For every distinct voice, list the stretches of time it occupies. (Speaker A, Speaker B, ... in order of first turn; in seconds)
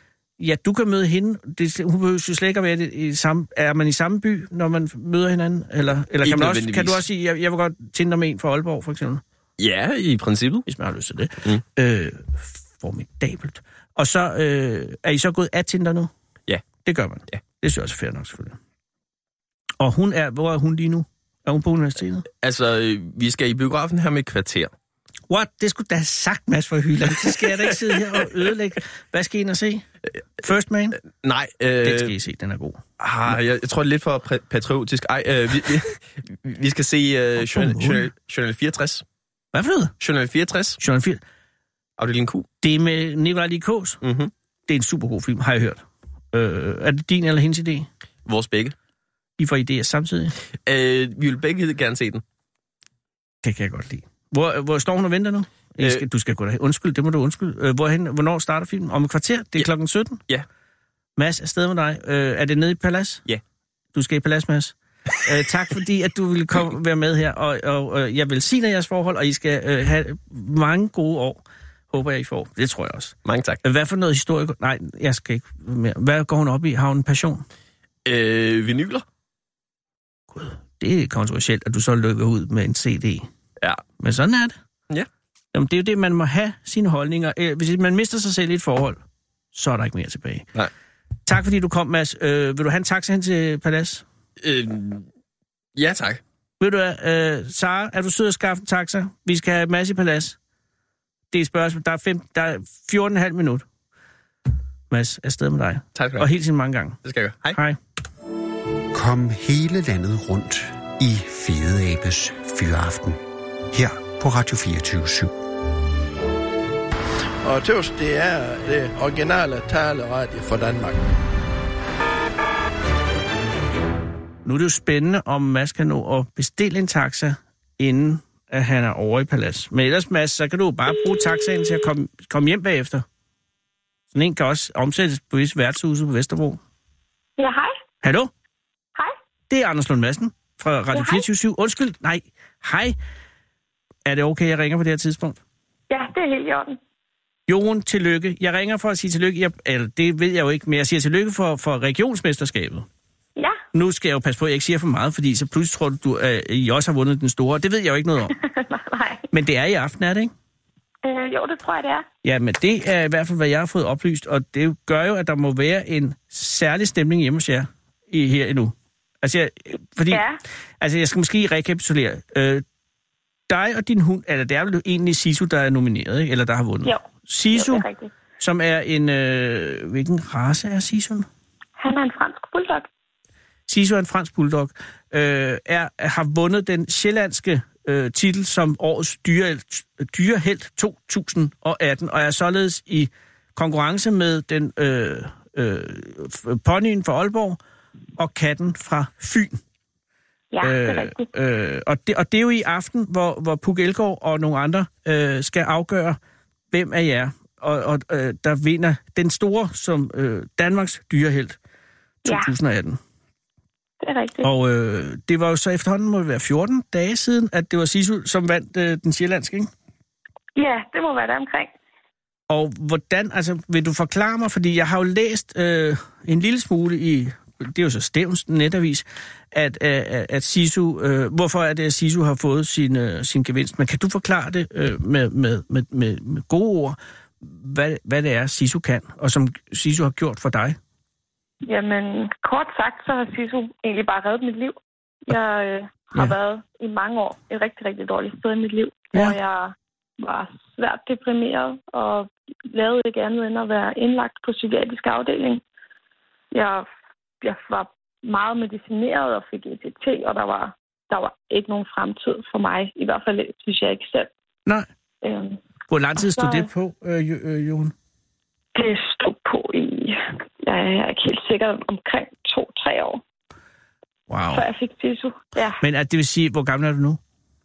Speaker A: 0.4-9.2, 10.7-16.1, 16.8-18.6, 19.8-22.3, 25.3-29.8, 30.4-31.0, 31.8-32.8, 37.4-38.1, 39.5-39.9, 40.8-41.2, 42.6-44.0, 44.7-47.9, 49.4-50.3, 53.4-60.2, 61.2-63.2, 63.9-77.4, 80.3-83.3, 84.0-84.5, 85.5-89.0, 89.5-90.5, 91.3-94.0, 96.6-100.3, 101.3-103.6, 104.9-107.0, 107.5-107.8, 124.4-133.0, 134.1-136.6, 138.0-138.3, 139.5-142.9, 144.0-145.4, 147.5-152.9, 153.7-158.3, 159.3-160.3, 162.2-170.2, 170.8-172.6, 173.5-177.8, 178.4-181.3, 183.7-197.6, 198.2-199.6, 200.6-206.2, 206.7-211.6, 212.2-213.0, 214.4-219.7, 222.5-240.8, 265.9-267.9, 274.3-274.6, 275.8-277.2
Speaker B: 6.2-7.0, 9.6-10.7, 22.4-24.7, 31.0-32.1, 33.0-39.0, 40.0-40.8, 42.0-42.5, 44.0-44.3, 48.2-48.7, 50.6-52.2, 73.2-73.6, 78.0-79.0, 94.4-95.1, 95.7-96.2, 105.9-106.3, 107.0-107.6
Speaker C: 108.9-113.2, 113.7-115.3
Speaker D: 117.4-121.0
Speaker E: 137.4-137.8, 140.9-141.2, 145.9-146.8, 158.3-159.3, 161.0-162.1, 170.1-170.4, 176.8-178.1, 181.8-182.9, 200.5-201.3, 212.2-212.5, 214.0-214.5, 220.6-221.7, 241.6-244.8, 245.3-255.6, 256.5-256.9, 257.4-264.3, 265.2-265.6, 266.2-266.7, 268.7-273.2, 274.5-275.8